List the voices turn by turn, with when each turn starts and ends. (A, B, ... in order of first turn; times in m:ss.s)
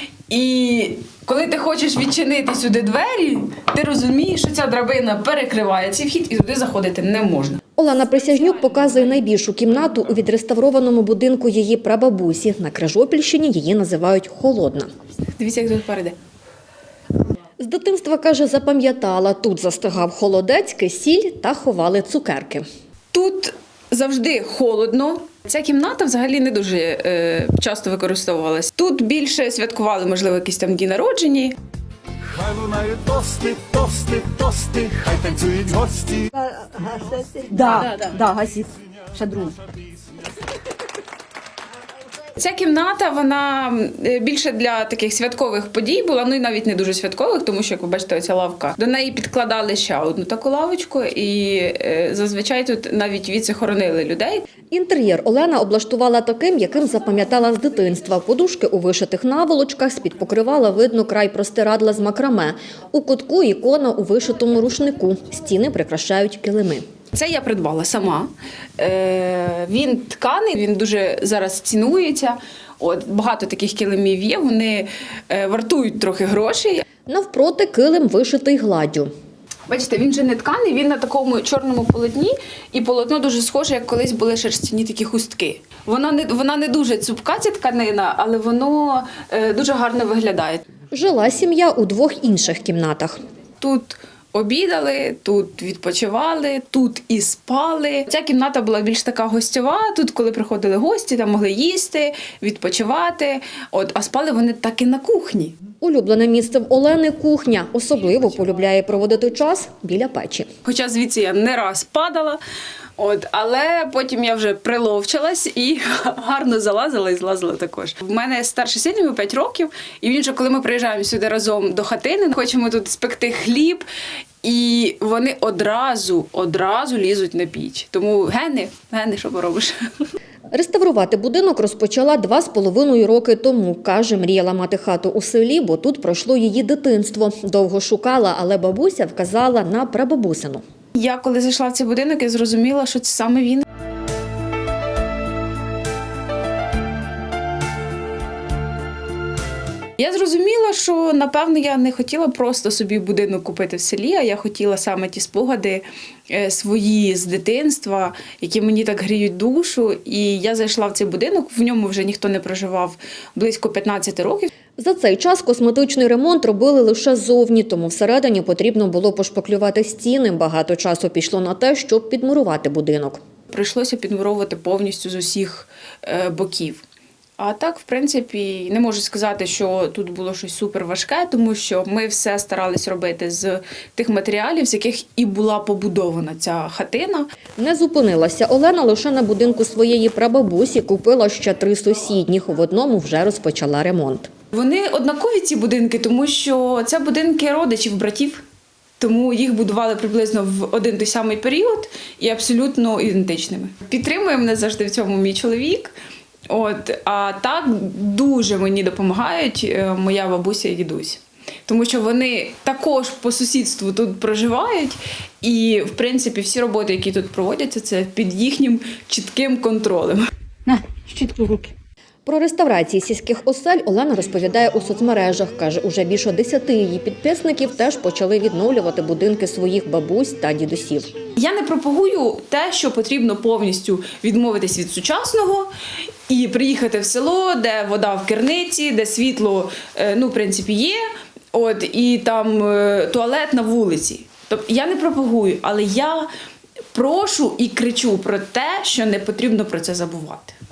0:00.3-0:07.6 A
0:07.8-0:14.9 B
0:15.4-0:16.2 A
0:17.6-0:22.6 B
0:23.1-0:31.5 A
0:32.3-0:36.2 C
0:35.3-0:35.6 D
0:36.3-0:39.6 D
0:42.4-0:54.4 A
0:54.7-1:06.8 B
1:07.1-1:16.8 A
1:17.0-1:19.1 B
1:19.7-1:30.6 A
1:30.9-1:33.2 B
1:33.6-1:45.6 A
1:45.8-1:50.5 B
1:50.6-1:52.4 A
1:53.0-2:03.8 A
2:04.4-2:10.0 A
2:10.5-2:20.6 B
2:21.0-2:23.6 A
2:30.0-2:44.5 A
2:44.8-2:53.2 B
2:53.5-2:56.8 A
2:57.4-3:07.3 A
3:07.6-3:14.3 B
3:14.5-3:18.4 A
3:19.0-3:25.9 A
3:26.5-3:40.2 A
3:40.7-3:41.7 D
3:42.2-3:51.1 B
3:51.4-3:55.7 A
3:56.3-4:06.3 A
4:06.9-4:10.5 A